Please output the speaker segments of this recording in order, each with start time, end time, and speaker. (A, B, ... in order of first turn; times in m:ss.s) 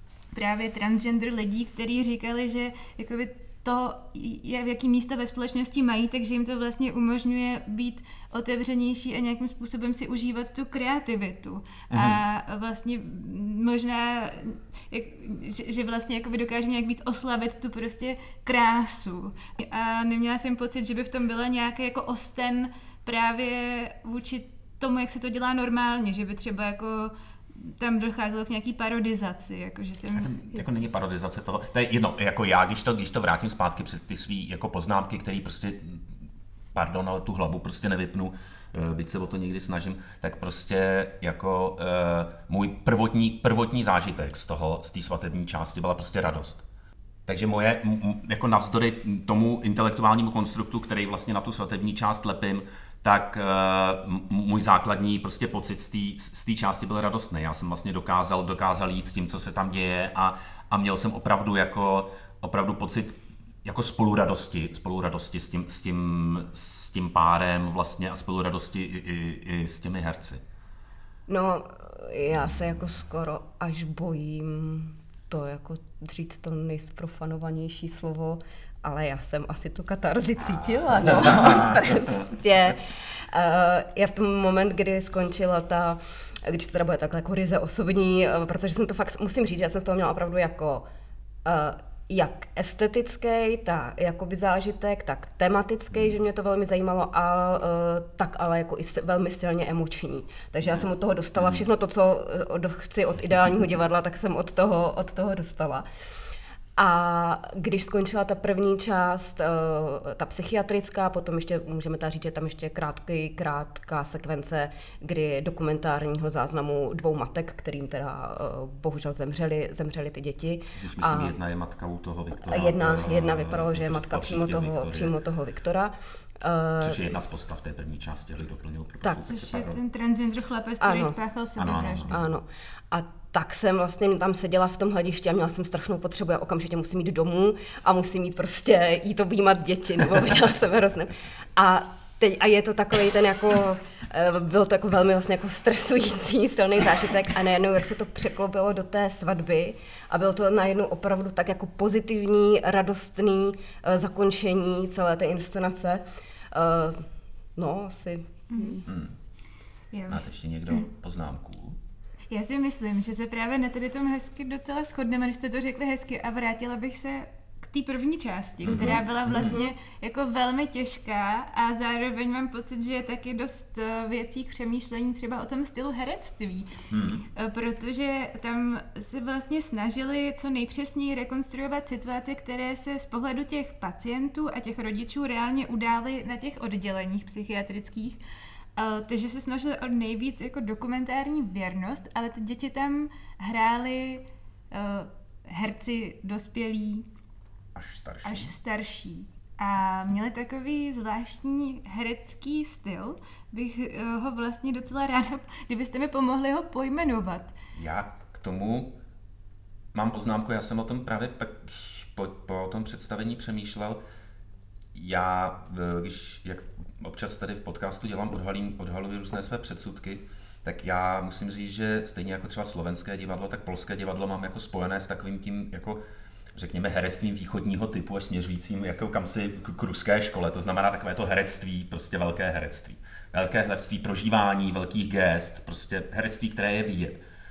0:00.3-0:30.5 A
0:11.9-0:12.2 B
0:30.2-0:36.0 B
0:36.7-0:46.6 B
0:47.3-1:10.4 B
1:11.3-1:30.8 C
1:21.2-1:21.7 B
1:31.4-1:45.8 C
1:46.8-2:01.3 C
2:00.7-2:05.1 B
2:02.5-2:07.0 C
2:06.8-2:09.8 B
2:09.2-2:12.1 A
2:10.8-2:11.2 C
2:11.6-2:12.3 B
2:12.1-2:37.0 C
2:37.6-2:38.8 C
2:38.5-2:38.8 A
2:38.9-2:39.1 B
2:39.9-2:40.8 A
2:40.1-2:41.8 B
2:42.3-2:56.7 A
2:48.6-2:49.6 B
2:56.9-2:57.2 B
2:57.3-3:08.2 A
3:08.8-3:17.1 A
3:17.7-3:18.5 B
3:18.2-3:27.5 A
3:27.7-3:28.9 B
3:29.9-3:34.0 B
3:34.9-3:46.0 B
3:46.5-3:57.2 B